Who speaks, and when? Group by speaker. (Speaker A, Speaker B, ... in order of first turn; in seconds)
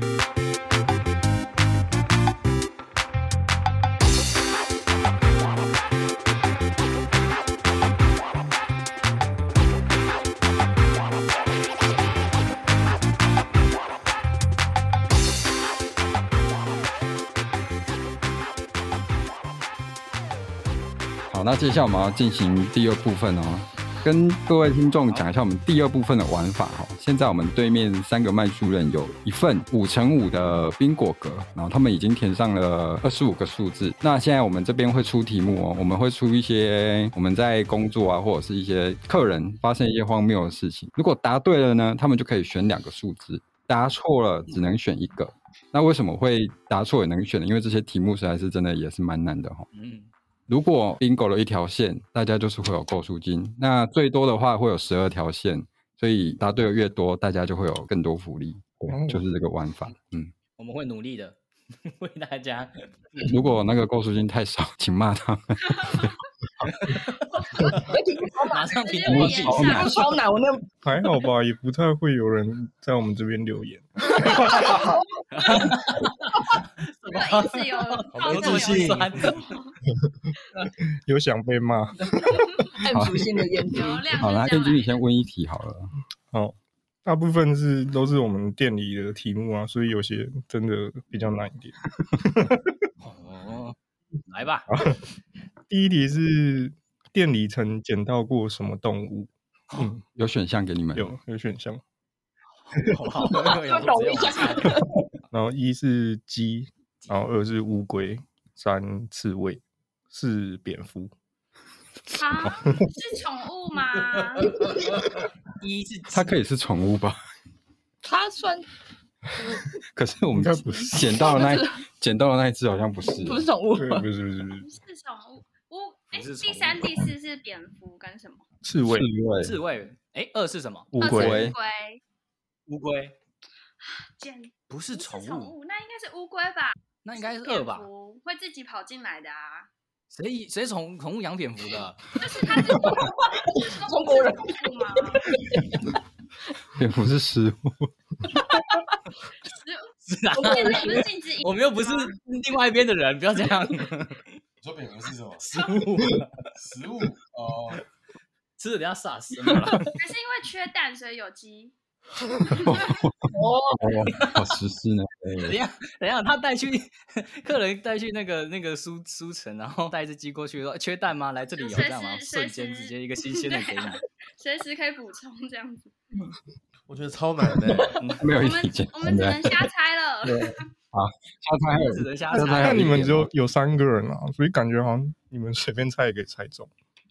Speaker A: 21.3-49.7, 50.5-60.3, 63.2-66.2, 69.1-70.0, 82.9-83.5, 84.2-85.9, 100.2-101.1, 116.1-117.2, 119.9-123.5, 128.8-129.6, 131.1-131.6, 146.8-147.9, 162.7-165.6, 178.2-179.7, 180.3-183.3
Speaker B: 49.7-50.1, 60.6-63.4, 66.8-67.8, 68.5-69.9, 75.3-79.6, 93.0-94.7, 102.6-104.8, 115.6-116.4, 126.1-126.8, 129.4-130.9, 132.7-133.2, 134.7-135.5, 137.0-137.9, 140.1-142.0, 150.1-154.3, 155.4-156.5, 158.6-159.9, 164.2-164.5, 165.4-174.0, 178.0-178.3, 181.8-183.1
Speaker C: 58.9-59.2, 70.8-74.9, 81.0-82.6, 86.3-92.7, 94.7-95.0, 95.7-100.0, 100.9-101.8, 105.3-111.1, 120.3-121.2, 123.8-124.7, 128.6-129.1, 130.9-131.5, 182.3-186.7
Speaker D: 67.8-68.7, 69.5-70.7, 82.1-84.2, 103.5-104.9, 118.0-118.7, 121.0-121.8, 123.2-124.1, 142.4-145.8, 148.5-148.9, 150.4-151.0, 163.3-164.1
Speaker E: 68.7-70.1, 77.1-79.7, 83.7-85.0, 112.1-114.6, 124.6-128.4, 131.0-132.0, 133.8-139.7, 142.2-145.4, 149.5-152.1, 159.8-161.7, 162.4-163.0, 171.6-175.9, 178.4-180.7
Speaker F: 78.1-79.3, 154.6-155.4, 156.6-157.8, 176.9-178.0